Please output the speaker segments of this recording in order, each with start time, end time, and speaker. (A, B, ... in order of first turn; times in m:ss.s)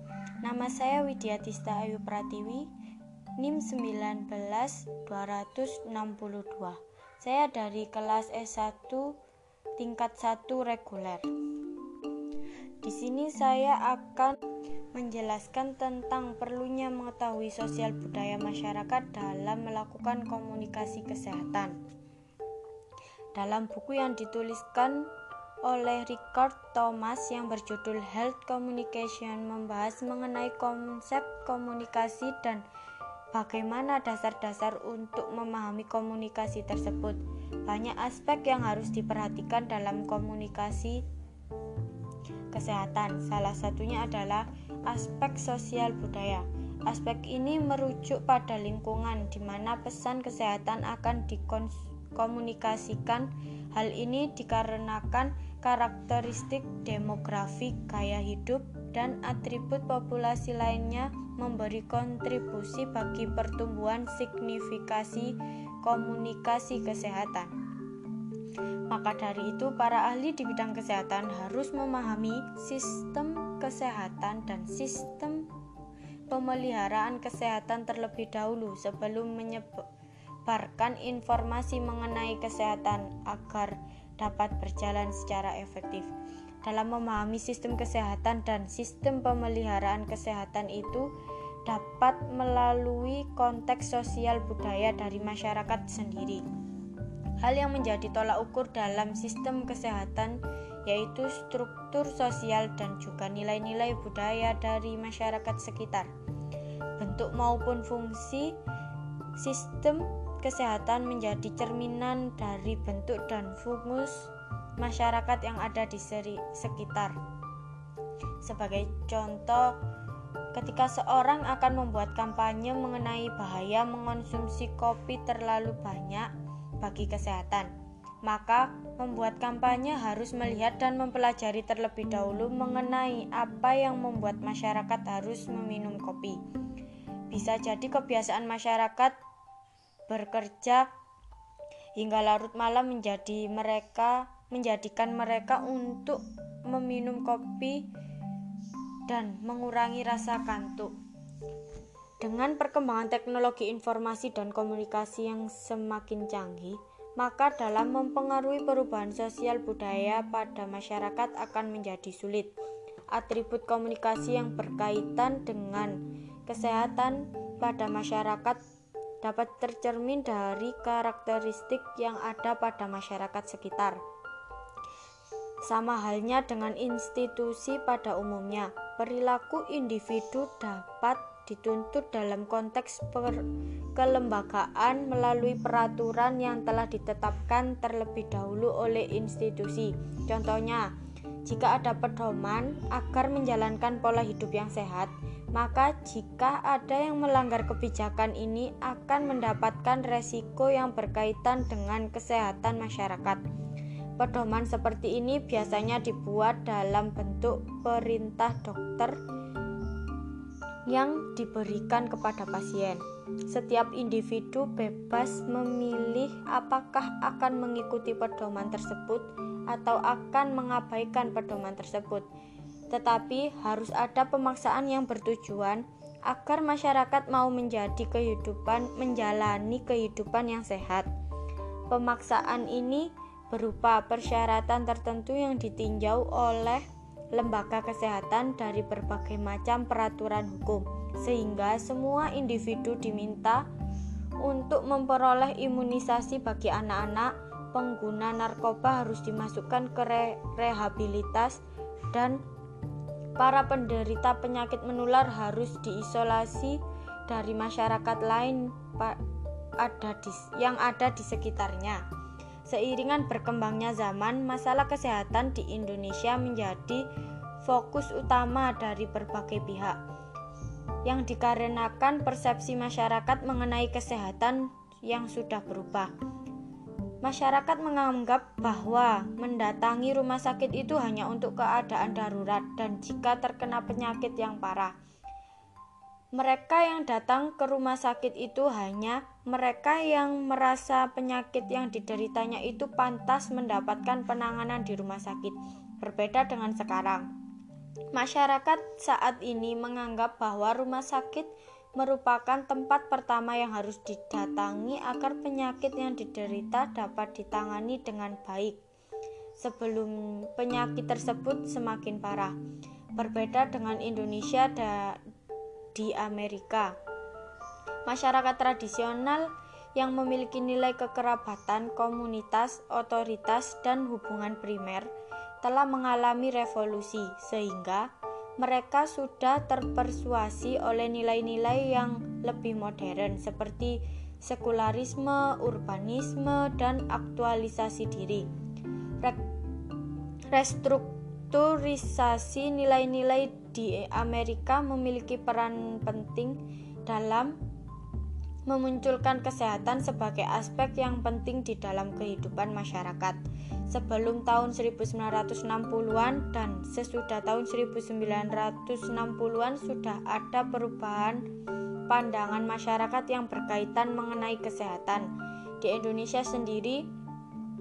0:00.4-0:02.7 A
0:03.4-0:09.1 A
0:09.8-0:11.2 A
0:12.8-0:14.4 A
0:14.9-0:21.8 A
0:23.3-0:25.1 A
0:25.6-0:32.6 A
0:33.3-0:41.0 A
0:42.5-1:07.5 A
1:08.9-1:15.5 A
1:16.3-1:19.8 A
1:20.4-1:26.1 A
1:26.6-1:31.1 A
1:31.6-1:36.4 A
1:37.4-1:46.1 A
1:47.0-1:48.6 A
1:49.4-1:57.2 A
1:58.4-1:59.8 A
2:00.5-2:07.7 A
2:08.2-2:16.4 A
2:17.3-2:19.2 A
2:20.1-2:20.9 A
2:22.0-2:27.9 A
2:29.1-2:30.9 A
2:32.2-2:42.5 A
2:43.1-2:48.6 A
2:49.2-2:54.0 A
2:55.6-3:03.4 A
3:04.0-3:10.9 A
3:11.4-3:23.4 A
3:24.2-3:29.2 A
3:30.9-3:42.3 A
3:42.9-3:51.1 A
3:51.9-4:03.6 A
4:04.4-4:11.6 A
4:12.1-4:12.4 A
4:13.4-4:19.2 A
4:19.8-4:22.0 A
4:22.6-4:27.1 A
4:27.6-4:30.0 A
4:31.0-4:36.1 A
4:37.2-4:44.9 A
4:46.3-4:57.3 A
4:58.1-5:08.8 A
5:09.6-5:12.6 A
5:13.2-5:15.2 A
5:15.9-5:16.9 A
5:18.1-5:25.1 A
5:25.6-5:38.5 A
5:40.5-5:47.6 A
5:48.7-5:53.4 A
5:53.9-6:01.4 A
6:02.1-6:05.3 A
6:05.8-6:07.0 A